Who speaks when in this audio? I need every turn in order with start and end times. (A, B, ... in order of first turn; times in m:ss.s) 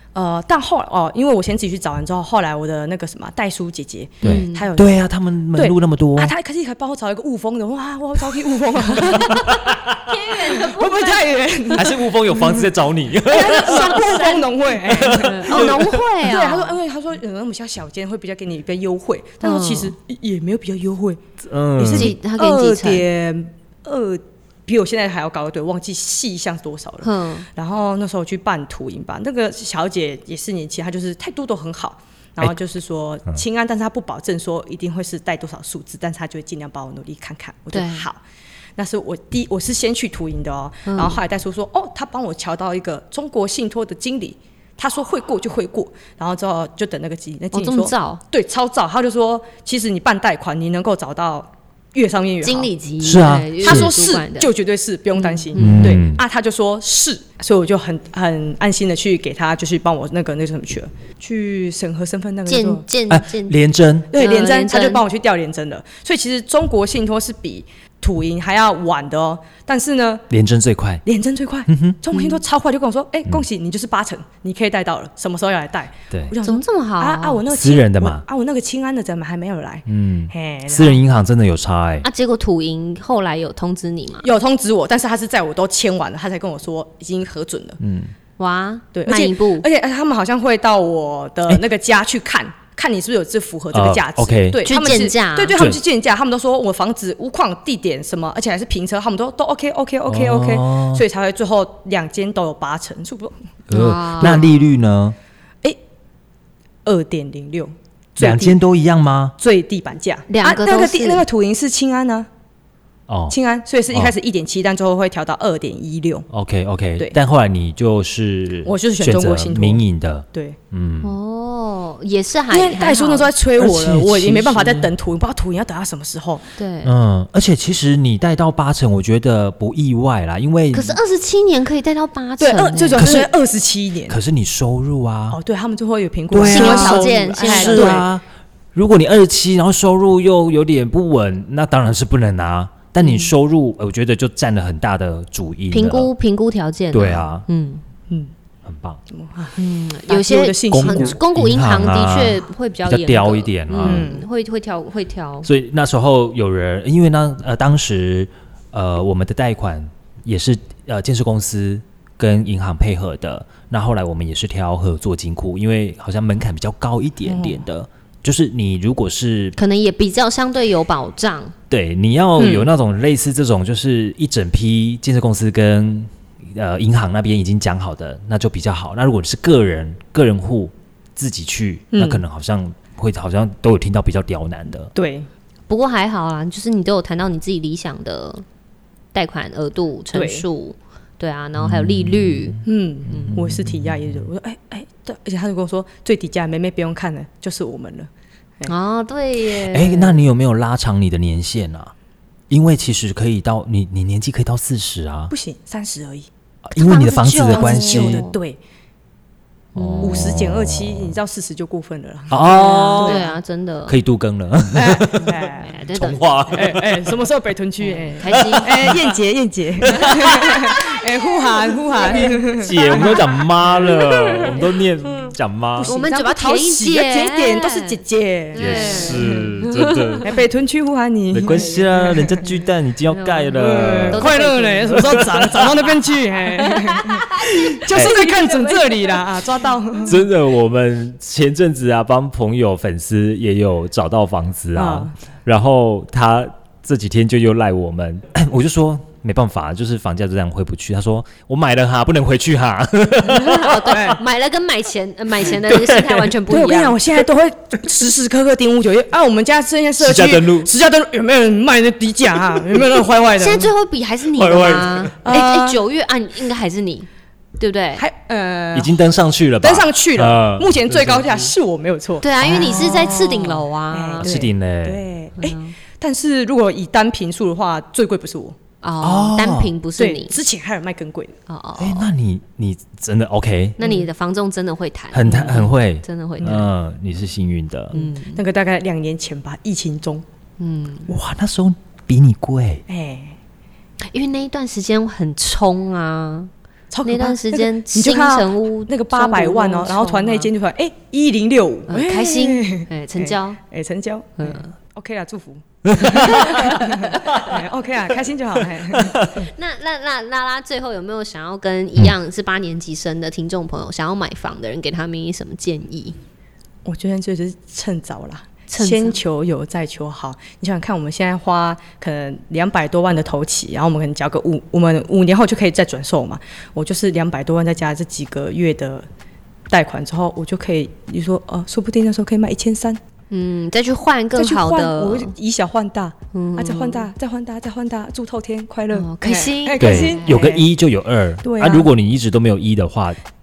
0:00.1-0:05.0 A
0:04.2-0:04.7 B
0:04.2-0:06.3 C
0:05.5-0:09.7 A
0:09.0-0:11.8 B
0:09.1-0:10.1 C
0:10.3-0:12.7 A
0:11.7-0:14.2 C
0:13.2-0:21.2 A
0:13.3-0:16.8 B
0:14.9-0:16.0 C
0:19.4-0:19.9 B
0:21.4-0:22.1 C
0:21.8-0:38.2 A
0:21.8-0:23.1 B
0:27.0-0:27.4 B
0:37.7-0:38.0 B
0:38.8-1:02.8 A
0:40.8-0:41.2 B
0:47.5-0:48.2 B
0:52.4-0:54.5 B
0:53.0-0:53.9 C
0:55.2-0:56.0 B
0:55.6-0:56.2 C
1:02.5-1:03.6 B
1:03.1-1:04.1 C
1:04.1-1:10.2 A
1:04.1-1:05.0 B
1:10.3-1:11.0 C
1:11.0-1:21.0 A
1:11.7-1:12.0 C
1:12.1-1:12.4 B
1:16.4-1:17.4 B
1:17.4-1:18.2 C
1:19.9-1:22.1 C
1:22.0-1:24.3 B
1:24.2-1:27.8 A
1:27.8-1:28.1 C
1:28.4-1:29.7 B
1:28.9-1:43.4 A
1:33.7-1:34.6 C
1:34.6-1:35.6 B
1:35.5-1:35.8 C
1:40.1-1:41.0 C
1:43.7-1:45.2 C
1:43.7-1:44.6 B
1:46.8-1:48.6 A
1:48.2-1:49.3 C
1:49.4-1:52.3 A
1:50.3-1:51.2 B
1:53.1-1:53.3 C
1:53.3-1:56.3 A
1:56.3-2:01.1 C
1:58.6-1:59.8 A
2:00.3-2:00.6 A
2:01.0-2:03.3 B
2:02.5-2:06.4 A
2:03.6-2:04.9 C
2:06.6-2:06.9 B
2:06.8-2:11.0 C
2:10.7-2:13.2 B
2:12.4-2:14.2 A
2:13.0-2:13.3 C
2:14.1-2:15.4 C
2:15.3-2:18.1 A
2:16.3-2:26.1 C
2:16.5-2:18.0 B
2:23.0-2:23.3 B
2:25.7-2:27.8 B
2:26.9-2:27.4 C
2:28.6-2:29.0 C
2:29.1-2:31.2 A
2:29.6-2:35.5 B
2:30.7-2:34.1 C
2:33.8-2:34.2 A
2:35.4-2:49.6 C
2:47.2-2:47.6 A
2:49.6-2:51.5 B
2:51.7-3:04.9 C
2:52.4-2:52.7 A
3:01.9-3:02.2 A
3:04.9-3:05.3 A
3:05.7-3:08.4 B
3:09.1-3:13.4 B
3:10.1-3:10.4 A
3:11.6-3:14.2 C
3:12.6-3:18.7 A
3:18.6-3:20.2 B
3:19.6-3:21.9 C
3:22.5-3:25.3 C
3:25.3-3:26.3 A
3:26.7-3:28.2 C
3:26.7-3:28.3 B
3:27.5-3:28.6 A
3:29.8-3:30.4 B
3:29.8-3:31.2 C
3:30.0-3:33.3 A
3:32.3-3:33.2 C
3:32.4-3:34.0 B
3:33.9-3:37.2 C
3:34.7-3:35.7 A
3:35.6-3:36.6 B
3:36.5-3:43.3 A
3:37.8-3:38.9 B
3:38.3-3:39.2 C
3:39.8-3:40.8 C
3:39.9-3:40.8 B
3:41.9-3:42.3 B
3:42.1-3:45.9 C
3:42.8-3:44.6 B
3:44.0-3:44.6 A
3:45.8-3:49.4 A
3:45.8-3:48.0 B
3:48.5-3:50.3 B
3:48.6-3:50.3 C
3:50.2-3:52.4 A
3:51.3-3:55.7 C
3:51.5-3:52.1 B
3:53.1-3:56.0 B
3:53.6-4:00.2 A
3:56.5-3:59.4 B
4:00.0-4:13.9 C
4:04.7-4:05.1 A
4:13.2-4:17.0 B
4:13.8-4:14.2 A
4:15.5-4:16.3 C
4:16.5-4:23.7 A
4:20.0-4:20.7 C
4:23.4-4:27.1 B
4:24.3-4:25.2 C
4:25.2-4:25.8 A
4:27.6-4:28.0 B
4:28.0-4:28.9 A
4:28.7-4:31.5 C
4:29.6-4:38.6 A
4:32.2-4:34.3 B
4:34.2-4:35.0 C
4:35.4-4:35.7 B
4:38.8-4:40.3 B
4:39.0-4:39.7 C
4:40.0-4:41.4 A
4:41.5-4:42.1 B
4:41.8-4:43.8 C
4:43.8-4:46.7 B
4:45.1-4:47.9 C
4:47.9-4:48.4 B
4:47.9-4:50.2 A
4:50.6-4:51.1 B
4:51.1-4:52.8 C
4:52.9-4:53.4 A
4:54.1-4:56.5 B
4:56.9-5:09.2 A
4:57.0-5:00.5 B
5:01.9-5:03.6 B
5:04.4-5:04.7 B
5:05.8-5:06.8 C
5:06.0-5:07.6 B
5:08.9-5:09.3 C
5:09.2-5:16.1 B
5:16.8-5:29.1 A
5:18.7-5:19.2 B
5:29.7-5:33.0 A
5:33.3-5:35.3 B
5:34.3-5:40.7 A
5:36.3-5:37.1 B
5:38.9-5:40.3 B
5:39.8-5:43.2 C
5:41.4-5:41.9 A